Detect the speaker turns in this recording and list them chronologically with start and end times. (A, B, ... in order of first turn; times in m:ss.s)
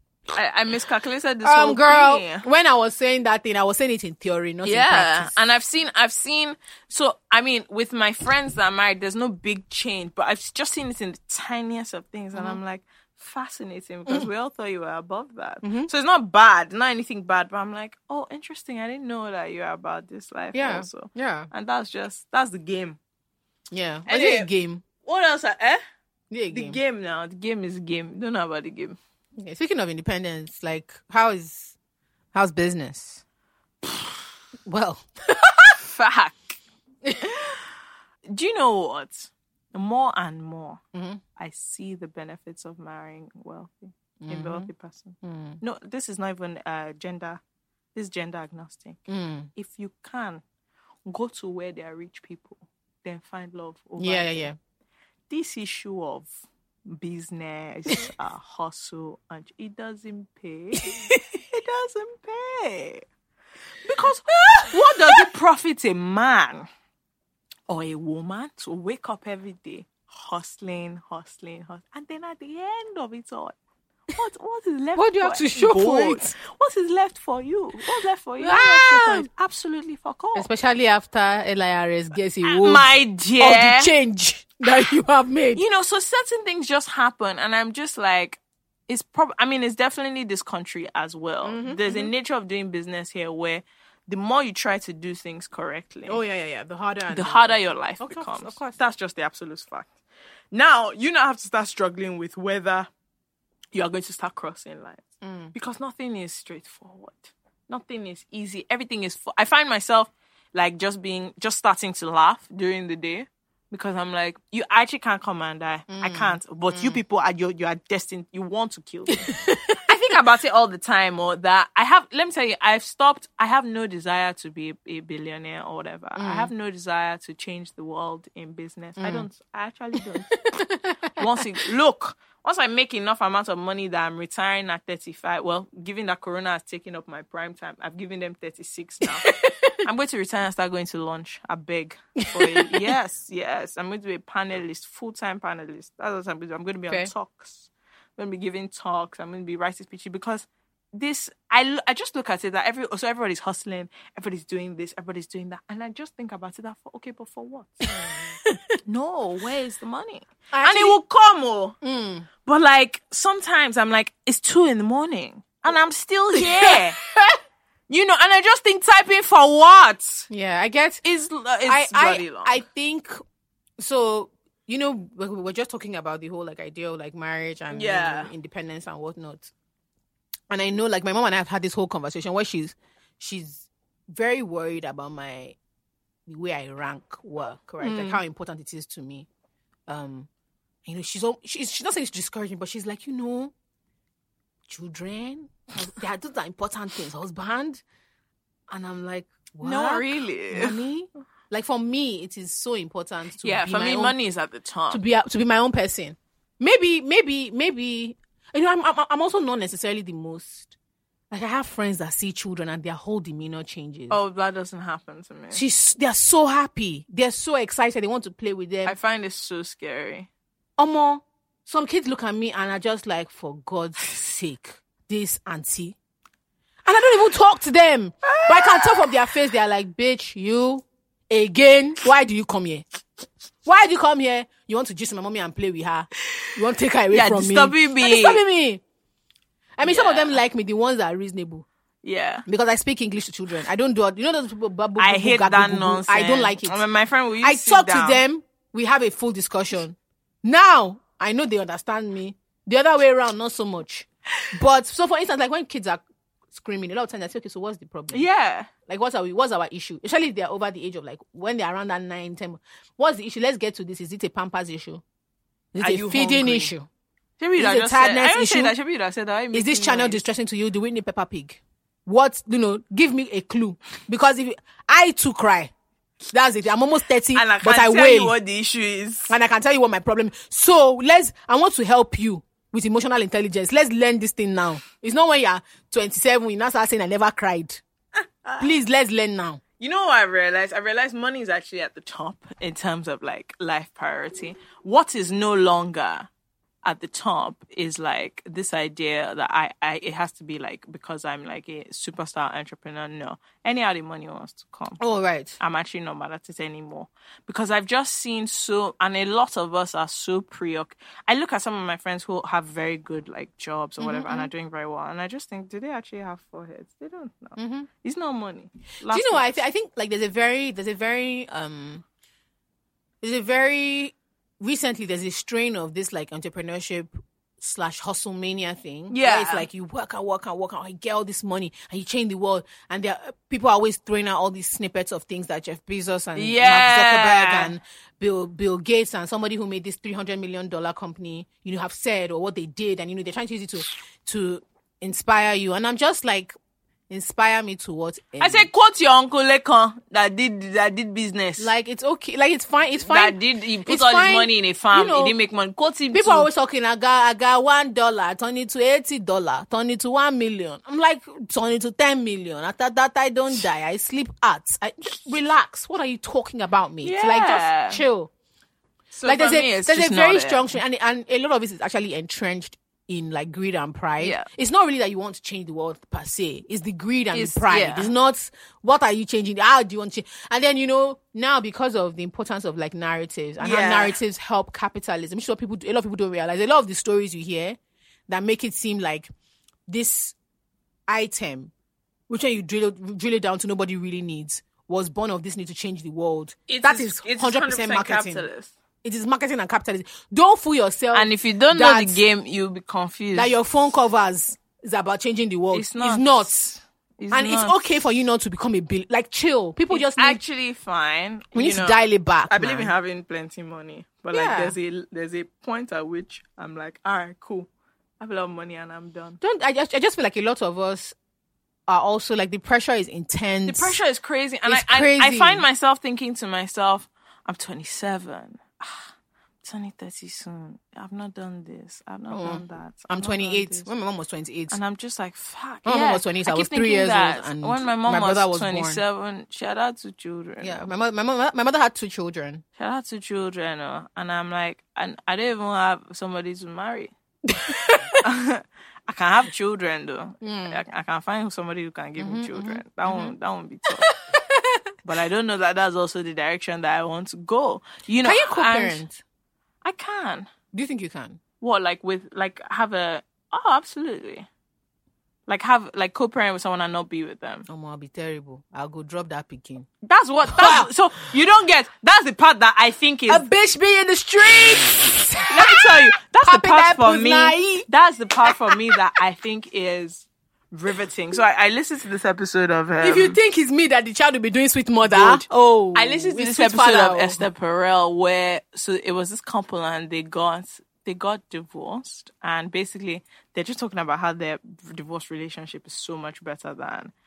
0:00.3-0:02.5 A
0:01.4-0:05.3 B
0:04.6-0:23.0 A
0:12.3-0:12.6 B
0:15.6-0:15.9 B
0:20.5-0:21.5 B
0:23.7-0:24.8 B
0:24.1-0:24.5 A
0:25.0-0:25.8 A
0:26.3-0:26.8 B
0:26.5-0:29.0 A
0:29.4-0:31.8 B
0:32.3-0:33.2 B
0:34.7-0:35.7 B
0:35.8-0:36.6 A
0:37.0-0:37.4 B
0:38.3-0:40.8 A
0:40.9-0:41.2 B
0:41.4-0:47.4 A
0:44.2-0:44.7 B
0:45.2-0:45.6 B
0:48.0-0:49.0 A
0:49.1-0:49.5 B
0:49.6-0:50.4 A
0:51.1-0:54.5 A
0:54.0-0:54.6 B
0:55.3-0:56.3 A
0:56.9-1:03.0 A
1:00.8-1:01.2 B
1:03.8-1:06.7 A
1:04.3-1:05.3 B
1:07.7-1:13.6 A
1:14.2-1:20.5 A
1:15.0-1:16.4 B
1:18.4-1:19.3 B
1:20.4-1:25.6 B
1:22.4-1:23.9 A
1:25.6-1:36.2 A
1:31.4-1:32.1 B
1:36.1-1:38.8 B
1:37.1-1:39.9 A
1:40.5-1:42.9 A
1:43.7-1:45.0 A
1:45.2-1:45.5 B
1:45.5-1:59.3 A
1:55.9-1:57.0 B
1:59.1-1:59.8 B
1:59.8-2:10.6 A
2:06.1-2:06.5 B
2:09.0-2:09.3 B
2:10.0-2:11.4 B
2:11.1-2:38.3 A
2:19.0-2:19.8 B
2:22.2-2:22.9 B
2:37.9-2:38.8 B
2:38.9-2:41.8 A
2:40.5-2:41.0 B
2:41.8-2:42.3 B
2:42.4-2:47.0 A
2:46.4-2:47.4 B
2:47.9-2:50.3 A
2:50.3-2:51.0 B
2:51.0-2:52.6 A
2:51.7-2:53.2 B
2:53.8-2:59.5 B
2:57.7-2:58.3 A
3:00.5-3:05.6 B
3:06.3-3:09.3 B
3:07.8-3:08.2 A
3:09.9-3:10.3 B
3:10.8-3:13.5 B
3:14.7-3:17.8 B
3:18.7-3:24.2 B
3:19.6-3:20.8 A
3:23.4-3:25.0 A
3:24.9-3:30.7 B
3:31.3-3:34.2 B
3:34.1-3:35.6 A
3:35.5-3:39.0 B
3:38.8-3:40.3 A
3:40.8-3:46.0 B
3:46.8-3:52.9 B
3:48.2-3:49.2 A
3:53.6-3:58.8 B
3:57.1-3:58.4 A
3:59.8-4:01.7 B
3:59.8-4:00.4 A
4:02.0-4:02.4 A
4:02.5-4:06.8 B
4:05.0-4:08.2 A
4:07.4-4:18.3 B
4:18.1-4:18.7 A
4:18.9-4:25.0 B
4:25.7-4:26.9 B
4:25.8-4:26.7 A
4:27.4-4:30.2 A
4:27.6-4:28.8 B
4:29.5-4:35.7 B
4:36.3-4:38.4 B
4:37.3-4:39.4 A
4:39.3-4:47.8 B
4:48.4-4:48.8 A
4:48.6-4:49.6 B
4:49.8-4:56.3 A
4:56.8-5:05.0 A
5:05.0-5:05.6 B
5:05.6-5:19.6 A
5:14.0-5:14.5 B
5:17.6-5:17.9 B
5:19.1-5:22.0 B
5:23.2-5:46.6 B
5:29.1-5:29.7 A
5:36.4-5:37.7 A
5:47.1-5:48.7 B
5:48.4-5:51.7 A
5:51.6-5:55.4 B
5:53.0-5:56.5 A
5:56.1-6:08.3 B
6:07.0-6:08.0 A
6:09.1-6:10.8 A
6:09.2-6:29.3 B
6:14.2-6:14.5 A
6:17.3-6:18.1 A
6:23.6-6:24.2 A
6:29.9-6:30.4 B
6:31.1-6:31.7 B
6:32.3-6:38.5 B
6:36.7-6:38.7 A
6:39.0-6:42.2 B
6:41.1-6:43.5 A
6:43.3-6:46.8 B
6:45.7-6:47.8 A
6:47.3-6:50.4 B
6:49.9-6:57.7 A
6:51.5-6:52.9 B
6:54.3-6:54.8 B
6:58.2-6:59.4 A
6:59.4-7:01.2 B
7:01.9-7:04.0 B
7:03.7-7:09.1 A
7:04.7-7:05.6 B
7:09.6-7:13.9 A
7:12.3-7:14.8 B
7:14.7-7:20.9 A
7:15.9-7:19.0 B
7:20.6-7:22.6 B
7:22.8-7:27.1 A
7:27.5-7:28.2 B
7:28.2-7:34.1 A
7:30.4-7:30.8 B
7:32.2-7:33.3 B
7:33.9-7:34.8 B
7:35.0-7:39.0 A
7:38.2-7:39.2 B
7:39.8-7:40.5 A
7:40.7-7:41.4 B
7:41.6-7:44.5 A
7:45.5-7:47.7 A
7:47.7-7:49.9 B
7:50.0-7:53.5 A
7:50.4-7:50.9 B
7:53.3-7:57.9 B
7:55.5-8:03.4 A
7:58.4-7:59.0 B
8:03.0-8:07.4 B
8:05.0-8:17.1 A